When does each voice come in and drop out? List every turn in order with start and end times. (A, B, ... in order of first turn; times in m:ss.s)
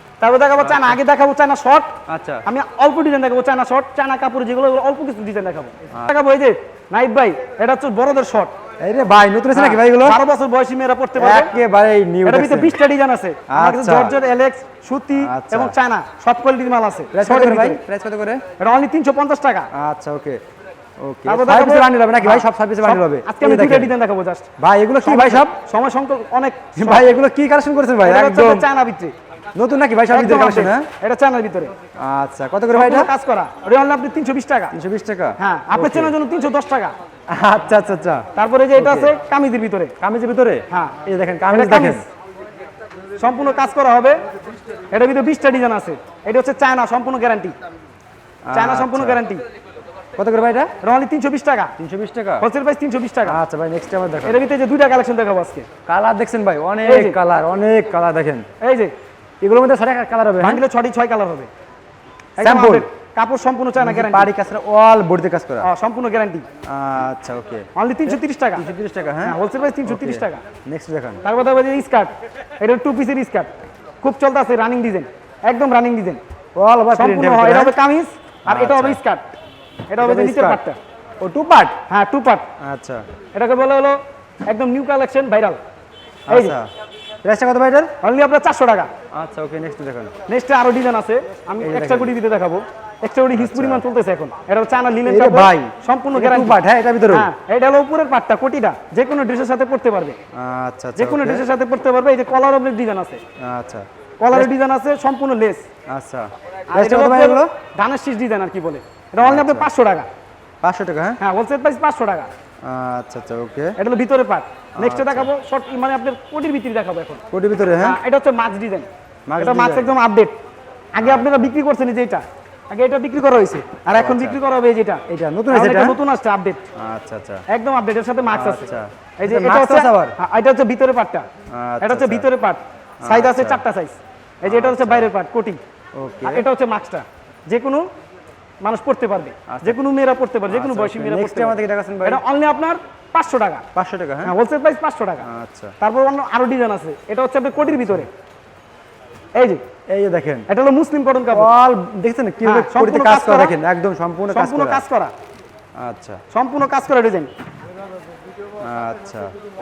0:00.2-0:01.9 A
0:00.6-0:01.0 B
0:02.1-0:02.4 B
0:02.4-0:08.5 A
0:08.8-0:10.2 B
0:09.5-0:11.5 A
0:11.2-0:12.8 B
0:12.2-0:17.8 A
0:13.5-0:14.2 B
0:15.1-0:15.8 B
0:17.1-0:18.4 B
0:18.6-0:19.7 A
0:19.7-0:20.4 B
0:21.0-0:23.9 B
0:21.2-0:24.5 A
0:24.6-0:25.5 B
0:25.0-0:27.1 A
0:26.8-0:28.7 B
0:28.0-0:29.1 A
0:29.6-0:30.9 B
0:30.1-0:31.7 A
0:32.0-0:33.1 B
0:32.7-0:34.8 A
0:34.7-0:36.1 B
0:35.4-0:37.0 A
0:37.3-0:39.2 B
0:38.4-0:39.9 A
0:40.0-0:42.0 B
0:41.5-0:42.1 A
0:43.2-0:44.2 A
0:44.9-0:47.5 A
0:48.4-0:49.2 B
0:48.5-0:49.4 A
0:50.2-0:50.7 B
0:50.8-0:51.7 A
0:51.8-0:52.4 B
0:52.4-0:53.4 A
0:53.2-0:54.4 B
0:54.2-0:55.7 A
0:55.9-0:58.5 B
0:56.8-0:57.2 A
0:58.6-0:58.9 A
0:59.4-1:00.6 B
1:00.4-1:01.5 A
1:02.4-1:04.3 A
1:02.4-1:02.8 B
1:03.8-1:05.7 B
1:05.6-1:06.4 A
1:06.6-1:11.2 B
1:07.8-1:08.6 A
1:09.2-1:10.4 A
1:11.2-1:16.2 A
1:16.6-1:17.8 B
1:16.9-1:19.4 A
1:18.5-1:19.0 B
1:19.9-1:20.8 A
1:20.0-1:20.6 B
1:21.2-1:21.8 B
1:21.9-1:22.5 A
1:22.6-1:23.0 B
1:23.3-1:25.6 A
1:26.3-1:26.7 B
1:26.3-1:26.6 A
1:27.2-1:27.9 B
1:28.0-1:28.9 A
1:29.1-1:30.1 B
1:30.3-1:40.2 A
1:31.6-1:32.2 B
1:33.3-1:33.8 B
1:35.1-1:37.3 B
1:40.3-1:41.4 B
1:41.0-1:43.2 A
1:43.4-1:44.5 B
1:44.2-1:45.6 A
1:45.9-1:47.5 B
1:46.7-1:50.1 A
1:49.2-1:49.7 B
1:50.6-1:51.2 B
1:51.2-1:52.3 A
1:52.6-1:53.8 B
1:53.8-1:57.2 A
1:54.8-1:55.3 B
1:57.3-1:58.0 B
1:57.8-1:58.9 A
1:59.3-1:59.9 B
1:59.4-2:00.4 A
2:00.9-2:06.6 A
2:01.0-2:01.5 B
2:03.9-2:04.4 B
2:05.1-2:06.0 B
2:06.8-2:07.4 B
2:07.5-2:08.7 A
2:08.3-2:10.1 B
2:09.2-2:11.2 A
2:11.5-2:12.3 B
2:11.8-2:15.6 A
2:13.0-2:13.6 B
2:14.4-2:15.1 B
2:16.0-2:16.5 B
2:16.2-2:17.9 A
2:18.6-2:23.6 A
2:19.5-2:19.8 B
2:20.5-2:22.2 B
2:23.7-2:24.3 B
2:24.2-2:25.2 A
2:25.2-2:25.7 B
2:25.8-2:28.1 A
2:27.6-2:28.1 B
2:29.4-2:29.6 A
2:29.9-2:30.5 B
2:30.5-2:31.5 A
2:31.3-2:34.8 B
2:32.4-2:33.6 A
2:34.3-2:35.1 A
2:35.8-2:36.2 B
2:36.3-2:37.3 A
2:38.6-2:39.3 B